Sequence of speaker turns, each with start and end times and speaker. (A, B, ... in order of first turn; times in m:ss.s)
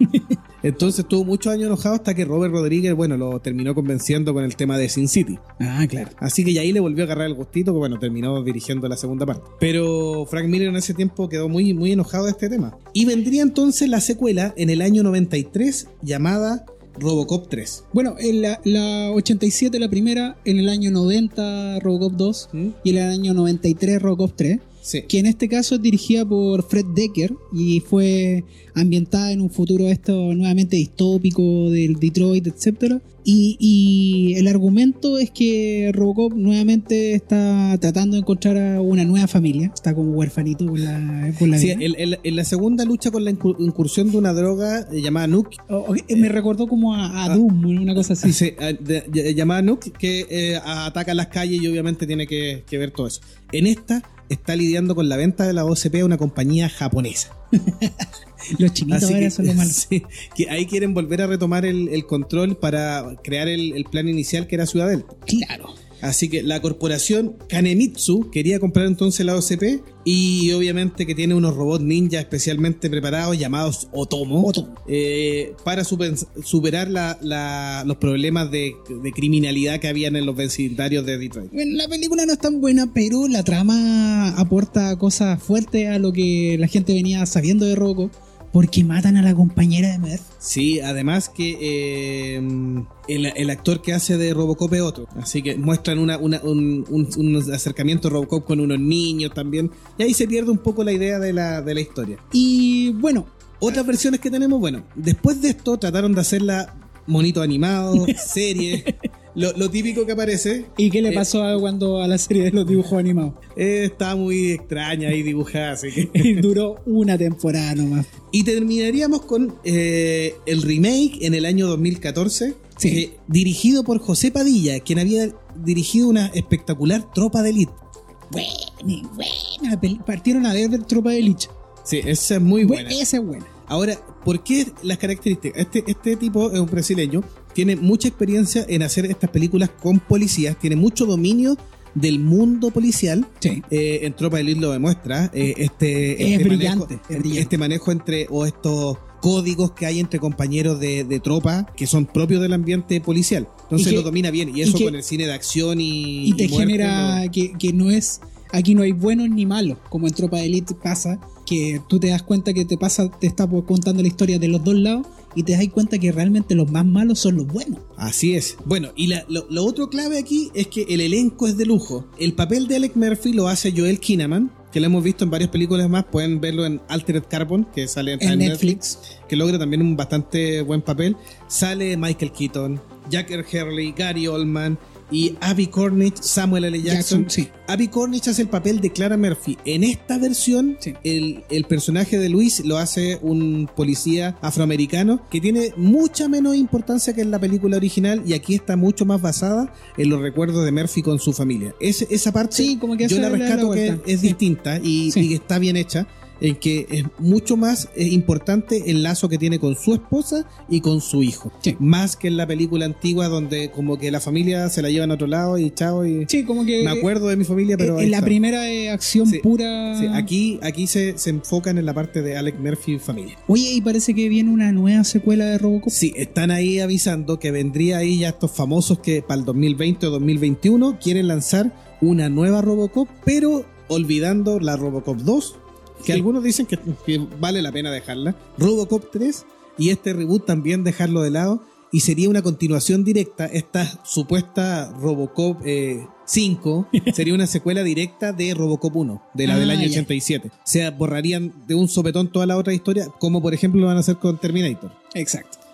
0:00.6-0:05.4 A
0:05.6-0:06.1 B
0:06.2-0:17.8 A
0:17.9-0:41.8 B
0:24.8-0:25.1 A
0:41.5-0:45.6 A
0:45.7-0:48.4 B
0:48.2-0:57.3 A
0:57.6-0:59.8 B
0:58.9-1:05.1 A
1:05.3-1:05.8 B
1:06.0-1:21.5 A
1:14.4-1:14.8 B
1:21.5-1:30.3 B
1:30.4-1:42.2 A
1:42.3-1:43.3 B
1:43.6-1:51.3 A
1:50.8-1:53.4 B
1:53.5-1:56.4 A
1:56.0-1:58.1 B
1:58.3-2:07.8 A
2:02.8-2:03.0 B
2:08.3-2:11.5 B
2:11.8-2:13.0 A
2:12.6-2:13.5 B
2:13.7-2:37.2 A
2:26.2-2:27.5 B
2:33.8-2:34.1 B
2:34.6-2:34.9 B
2:36.2-2:47.8 B
2:48.0-3:38.4 A
2:58.2-2:59.0 B
3:06.8-3:07.5 B
3:22.5-3:24.4 B
3:36.3-3:37.1 B
3:37.8-3:40.3 B
3:39.2-3:43.4 A
3:43.5-3:45.9 B
3:45.9-4:15.0 A
4:06.9-4:07.2 B
4:09.4-4:10.1 B
4:15.1-4:15.6 B